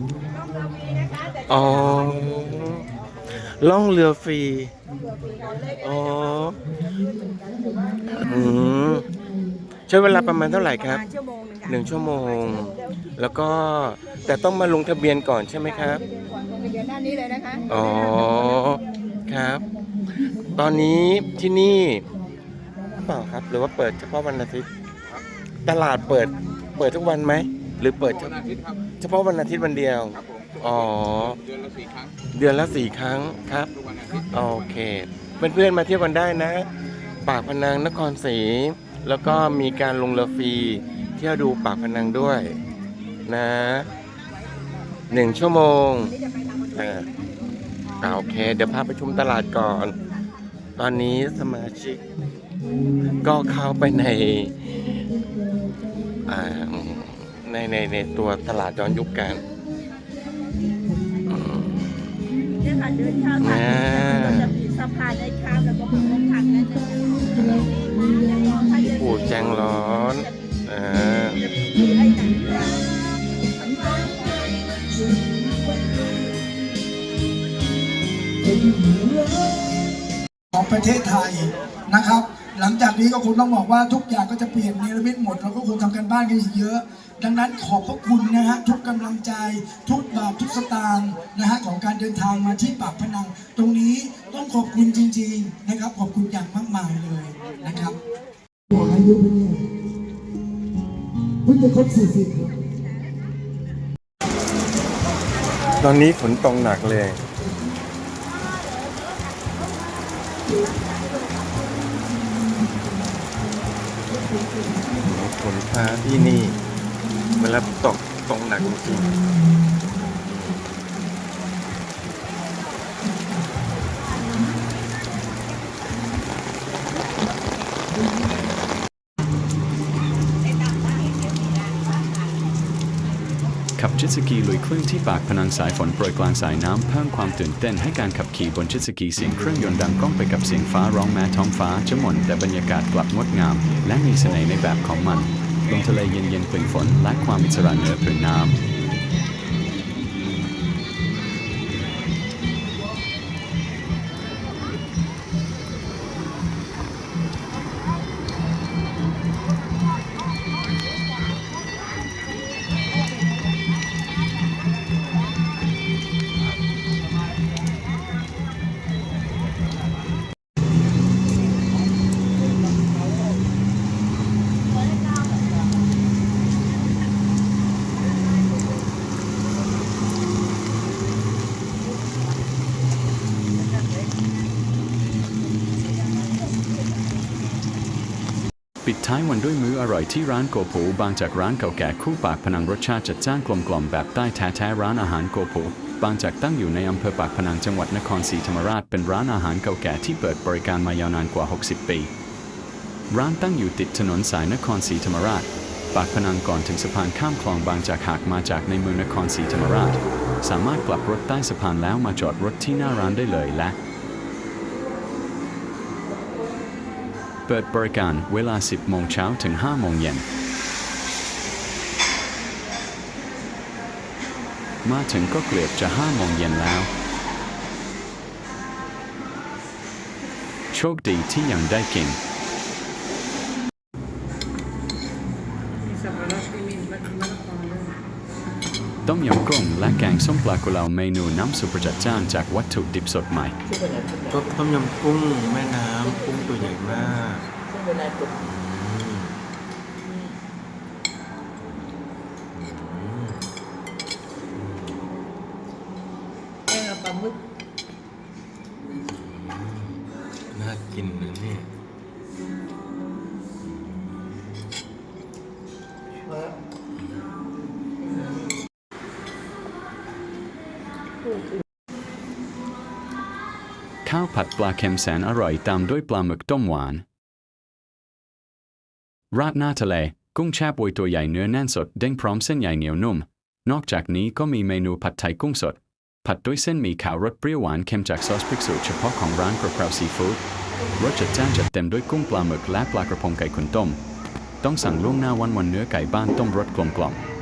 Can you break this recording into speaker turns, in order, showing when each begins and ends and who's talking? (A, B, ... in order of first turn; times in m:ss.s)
0:00.3-0:01.2 A
0:01.4-0:04.7 B
0:05.5-0:06.6 B
0:06.9-0:08.5 A
0:08.2-0:09.0 B
0:09.8-0:16.0 B
0:17.7-0:19.7 B
0:20.4-0:22.1 B
0:23.0-0:24.7 B
0:25.6-0:31.4 B
0:32.3-0:36.7 B
0:37.2-0:42.6 B
0:43.3-0:43.9 B
0:45.1-0:46.2 B
0:46.7-0:47.1 B
0:48.0-0:50.0 B
0:50.8-0:52.0 B
0:53.2-0:54.7 B
0:56.3-0:59.4 B
1:01.3-1:01.8 B
1:02.9-1:04.4 A
1:03.4-1:04.6 B
1:05.0-1:05.4 C
1:05.5-1:09.0 A
1:08.8-1:11.4 B
1:11.7-1:16.4 A
1:18.5-1:19.9 A
1:20.5-1:38.0 A
1:38.7-1:39.6 A
1:41.4-1:42.6 A
1:45.7-1:47.2 B
1:50.6-1:51.3 A
1:54.3-1:54.9 A
1:55.0-1:56.6 B
1:57.4-1:59.2 B
2:13.8-2:28.6 D
3:08.8-3:22.1 D
3:23.1-3:33.8 D
3:37.5-3:40.3 D
3:44.8-3:46.9 D
3:50.7-3:52.2 D
3:55.9-3:58.0 C
3:59.0-4:03.6 D
4:04.3-4:07.4 B
4:07.7-4:08.1 C
4:08.4-4:09.4 B
4:12.5-4:13.5 B
4:14.6-4:15.0 B
4:16.7-4:17.3 C
4:19.0-4:21.7 B
4:23.8-4:24.3 B
4:27.0-4:27.3 B
4:34.0-4:37.0 D
4:39.3-4:50.4 D
4:51.0-4:54.0 D
4:54.6-4:57.2 D